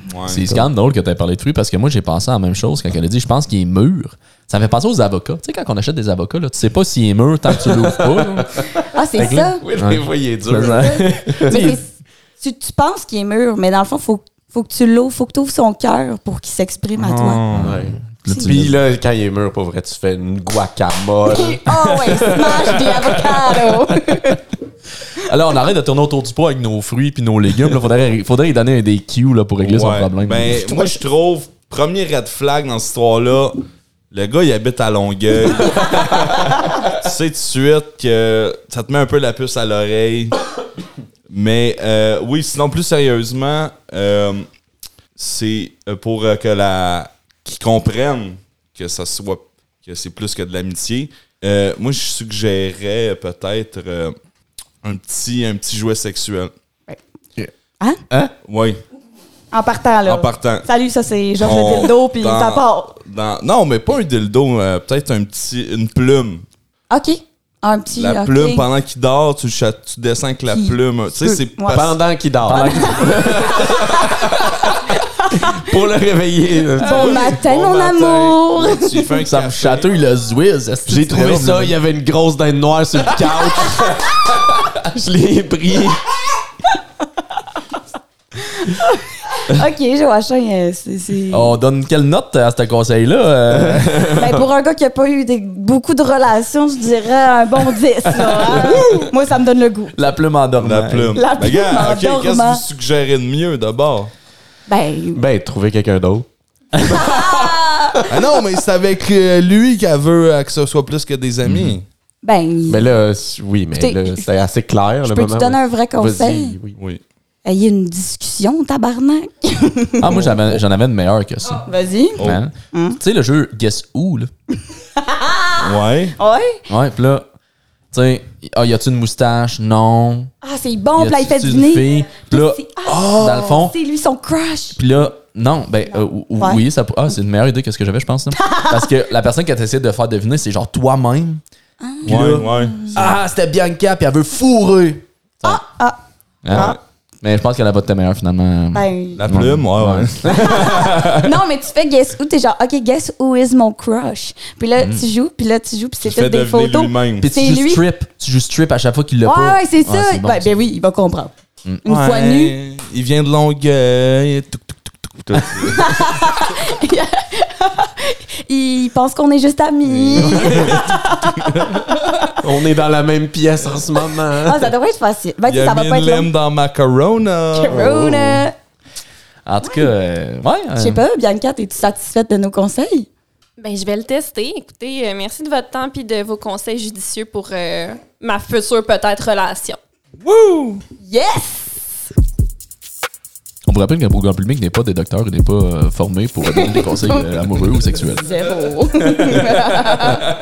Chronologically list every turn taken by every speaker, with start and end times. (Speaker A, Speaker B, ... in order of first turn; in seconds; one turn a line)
Speaker A: 0.1-0.5
Speaker B: 0.3-8.6
Speaker C: 7.6-11.8
Speaker D: 8.9-9.6
Speaker B: 9.8-11.8
Speaker D: 11.4-17.4
Speaker A: 17.0-17.8
Speaker B: 17.5-18.8
Speaker C: 17.6-23.2
Speaker D: 21.3-24.4
Speaker B: 25.2-30.9
Speaker A: 29.6-40.4
Speaker A: 41.3-44.5
Speaker A: 45.2-54.1
Speaker A: 54.8-56.5
Speaker A: 58.5-58.8
Speaker D: 59.5-63.0
Speaker A: 60.0-60.7
Speaker A: 61.4-66.5
Speaker D: 66.9-68.7
Speaker A: 67.9-72.0
Speaker D: 70.5-75.7
Speaker C: 71.7-74.8
Speaker B: 72.5-73.2
Speaker C: 75.3-77.3
Speaker D: 76.8-79.1
Speaker A: 76.8-79.9
Speaker B: 79.2-81.8
Speaker C: 80.9-86.1
Speaker D: 88.4-91.5
Speaker B: 91.3-94.2
Speaker C: 93.5-94.4
Speaker D: 94.1-100.0
Speaker B: 98.2-99.1
Speaker B: 99.9-101.2
Speaker A: 100.6-104.1
Speaker D: 101.2-102.6
Speaker D: 104.7-105.2
Speaker C: 105.1-107.4
Speaker D: 106.9-108.0
Speaker A: 108.1-111.8
Speaker B: 111.4-111.8
Speaker D: 112.2-112.9
Speaker C: 112.7-116.8
Speaker D: 113.8-114.3
Speaker D: 115.0-116.6
Speaker A: 116.8-117.0
Speaker D: 117.5-120.2
Speaker B: 120.0-121.7
Speaker C: 120.1-120.5
Speaker D: 121.7-122.2
Speaker B: 122.2-124.3
Speaker D: 122.7-123.0
Speaker D: 125.0-126.6
Speaker A: 125.6-126.2
Speaker B: 126.7-127.3
Speaker B: 127.9-130.3
Speaker D: 130.4-134.8
Speaker B: 130.9-133.8
Speaker A: 132.9-133.3
Speaker B: 134.8-141.4
Speaker D: 138.4-138.7
Speaker D: 141.8-143.0
Speaker B: 142.0-145.6
Speaker A: 142.1-142.9
Speaker D: 145.4-146.0
Speaker B: 146.4-151.3
Speaker A: 146.5-146.8
Speaker D: 146.5-146.8
Speaker D: 148.7-149.2
Speaker A: 149.2-150.9
Speaker D: 150.2-157.8
Speaker B: 154.8-155.0
Speaker A: 156.0-157.3
Speaker B: 157.2-160.5
Speaker D: 159.2-162.6
Speaker A: 161.8-166.4
Speaker D: 165.6-172.4
Speaker A: 169.8-170.8
Speaker C: 170.3-170.8
Speaker C: 172.4-174.7
Speaker D: 174.4-176.3
Speaker A: 175.5-177.8
Speaker D: 177.5-178.5
Speaker C: 177.7-178.4
Speaker B: 179.4-181.0
Speaker D: 180.8-183.1
Speaker E: 183.6-189.8
Speaker A: 190.2-190.8
Speaker D: 191.0-191.9
Speaker B: 193.7-198.4
Speaker D: 196.5-197.3
Speaker D: 198.1-200.3
Speaker B: 199.2-200.2